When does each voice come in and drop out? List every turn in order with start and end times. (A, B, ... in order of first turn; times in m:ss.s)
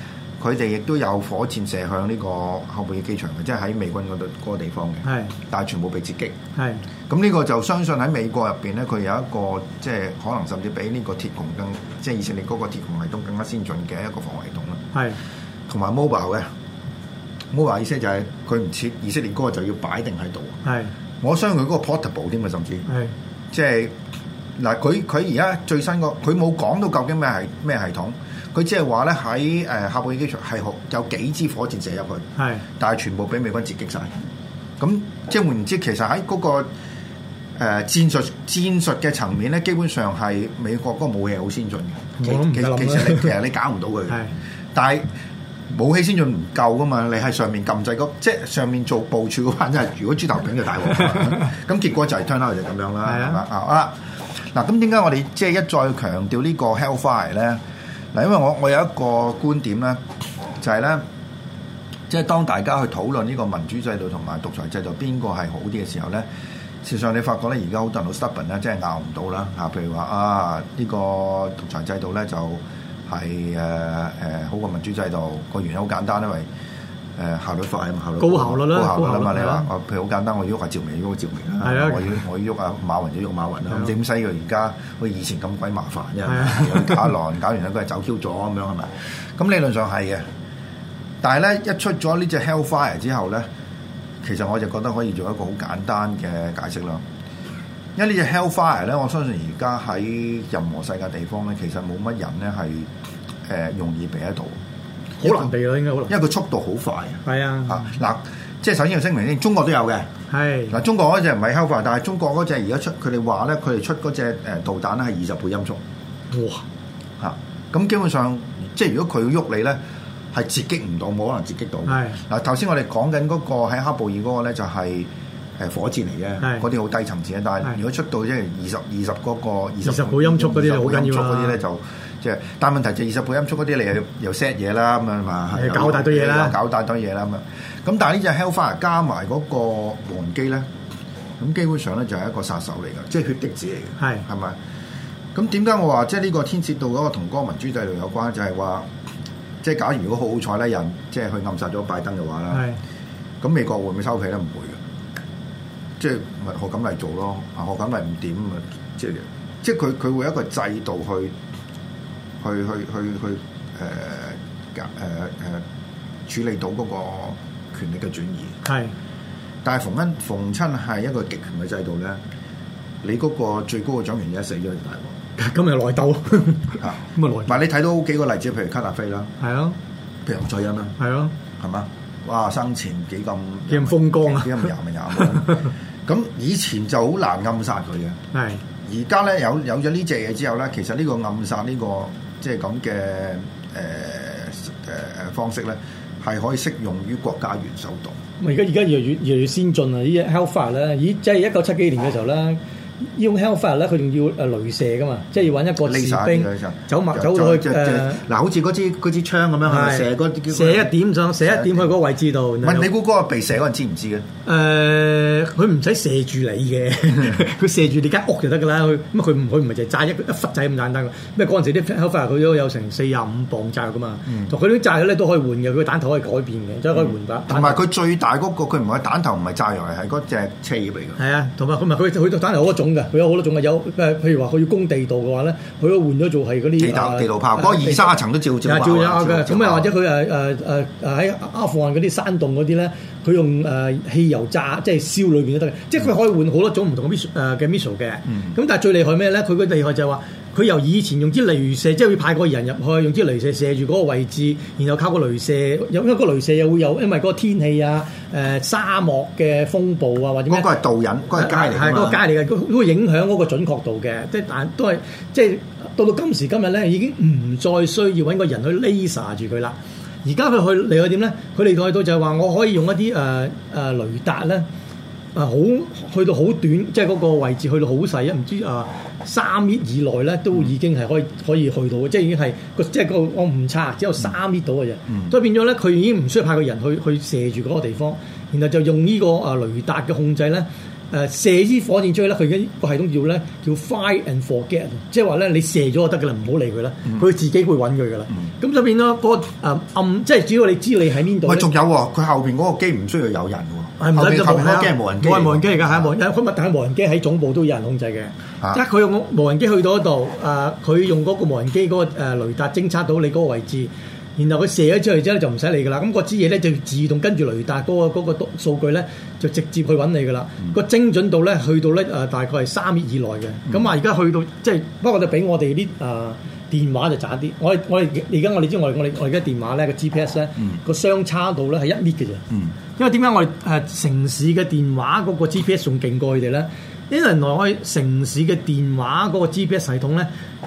0:00.4-0:06.4 A
0:05.0-0:05.3 B
0:06.6-0:06.8 B
0:07.1-0:14.8 A
0:14.9-0:15.2 B
0:15.7-0:16.5 A
0:17.5-0:20.6 A
0:20.6-0:20.9 B
0:21.2-0:22.9 A
0:22.9-0:23.1 B
0:23.5-0:23.9 A
0:24.6-0:32.3 A
0:32.4-0:32.6 B
0:32.8-0:34.1 A
0:34.8-0:36.7 A
0:37.6-0:45.1 A
0:42.2-0:43.4 B
0:45.7-0:57.6 A
0:53.0-0:53.4 B
0:58.1-1:00.0 A
1:00.6-1:01.0 A
1:02.1-1:06.2 A
1:06.8-1:16.5 A
1:17.2-1:30.3 A
1:18.2-1:19.7 B
1:21.6-1:22.2 B
1:26.2-1:27.1 B
1:31.2-1:33.5 A
1:34.2-1:37.0 A
1:38.0-1:42.9 A
1:43.4-1:44.6 A
1:45.2-1:45.5 A
1:45.2-1:46.1 B
1:46.1-1:50.1 A
1:47.2-1:48.0 B
1:50.3-1:50.8 B
1:50.7-1:55.8 A
1:56.3-1:56.6 B
1:57.2-1:59.8 A
2:00.3-2:20.6 A
2:01.9-2:02.2 B
2:09.8-2:11.6 B
2:15.5-2:16.6 B
2:21.4-2:24.6 A
2:24.0-2:24.2 B
2:25.3-2:28.9 A
2:29.6-2:32.7 A
2:32.5-2:32.8 B
2:33.4-2:34.8 A
2:36.0-2:41.3 A
2:42.4-2:45.6 A
2:46.2-2:48.6 A
2:48.6-2:48.9 B
2:49.6-2:52.2 A
2:53.0-2:55.2 A
2:55.4-2:57.6 B
2:56.8-2:59.3 A
2:59.4-2:59.8 B
3:00.2-3:01.0 A
3:01.0-3:01.3 B
3:01.6-3:08.2 A
3:03.7-3:05.6 B
3:08.3-3:08.6 B
3:08.8-3:18.2 A
3:18.4-3:28.2 B
3:25.8-3:31.9 A
3:29.6-3:32.9 B
3:32.6-3:34.2 A
3:34.4-3:47.8 B
3:44.3-3:44.5 A
3:47.0-3:51.2 A
3:51.2-3:58.1 B
3:56.8-3:59.9 A
3:58.6-4:20.7 B
4:08.3-4:08.6 A
4:20.5-4:22.2 A
4:21.3-4:34.7 B
4:35.3-5:01.7 B
4:45.1-4:45.3 A
5:01.4-5:06.1 A
5:04.0-5:32.4 B
5:32.5-5:32.8 A
5:33.0-5:40.3 B